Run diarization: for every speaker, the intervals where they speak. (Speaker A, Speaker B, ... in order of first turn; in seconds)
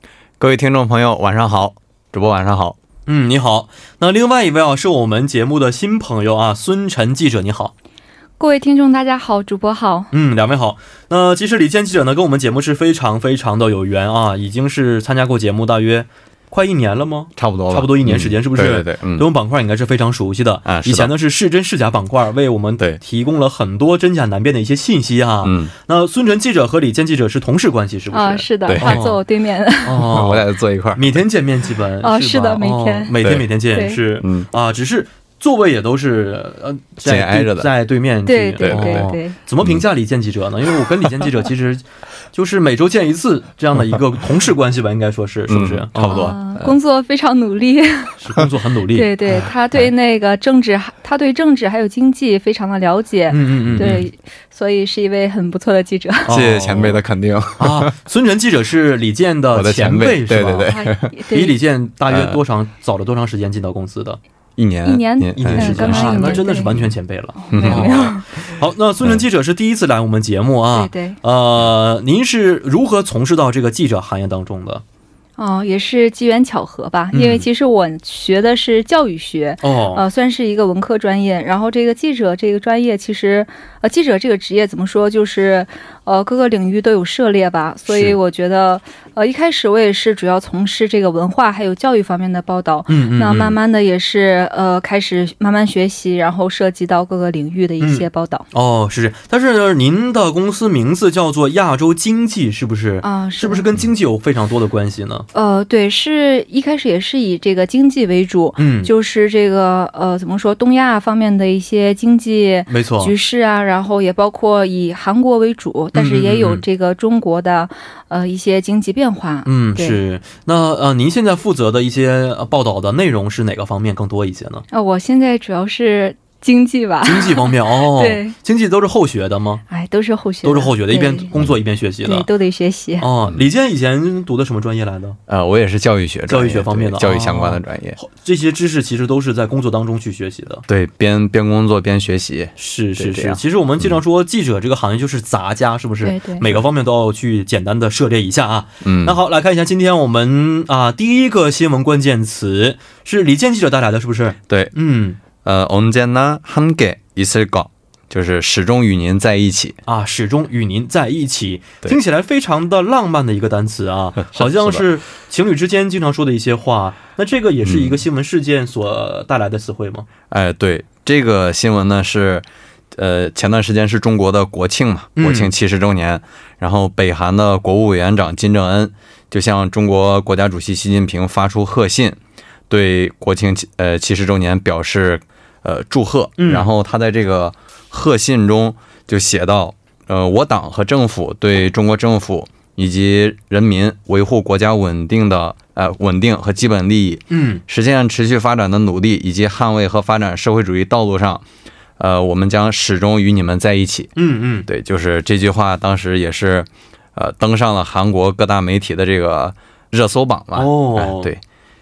Speaker A: 0.4-2.8, 17.4-19.3, 20.6-21.1, 25.4-25.7, 28.6-29.0, 30.0-31.2, 33.2-33.5, 34.2-34.5, 37.0-37.7, 38.6-39.8, 45.5-46.7, 53.7-53.9, 56.3-57.9, 59.5-61.1, 62.1-62.4, 64.6-66.9, 67.5-68.1, 135.3-138.0, 140.7-143.9, 148.8-149.2, 155.4-159.8, 164.3-164.8, 167.6-168.0, 170.3-182.2, 182.7-201.4, 202.0-204.1, 204.7-211.4
Speaker B: 3.1-7.7, 10.1-29.2, 29.8-46.3, 48.2-49.5, 53.3-54.1, 56.2-57.0, 57.6-60.7, 61.3-64.2, 65.4-74.8, 77.1-77.4, 79.6-80.0, 87.9-88.2, 92.9-93.6, 97.8-105.3, 108.6-108.9, 112.7-113.1, 115.9-116.6, 119.5-124.6, 127.0-129.6, 130.4-132.3, 133.0-135.2, 136.3-140.6, 142.6-155.2, 159.9-170.1, 175.2-175.5, 186.4-186.7, 197.3-197.6, 204.2-204.7, 210.5-211.3
Speaker C: 8.4-10.1, 28.1-30.1, 32.0-33.1, 33.7-34.0, 38.2-39.4, 46.1-48.2, 48.9-56.4, 60.6-61.6, 64.8-66.7, 67.4-68.2, 70.7-71.2, 75.4-98.5, 103.0-103.7, 105.3-120.0, 124.7-128.3, 129.7-131.3, 132.0-133.1, 146.0-146.6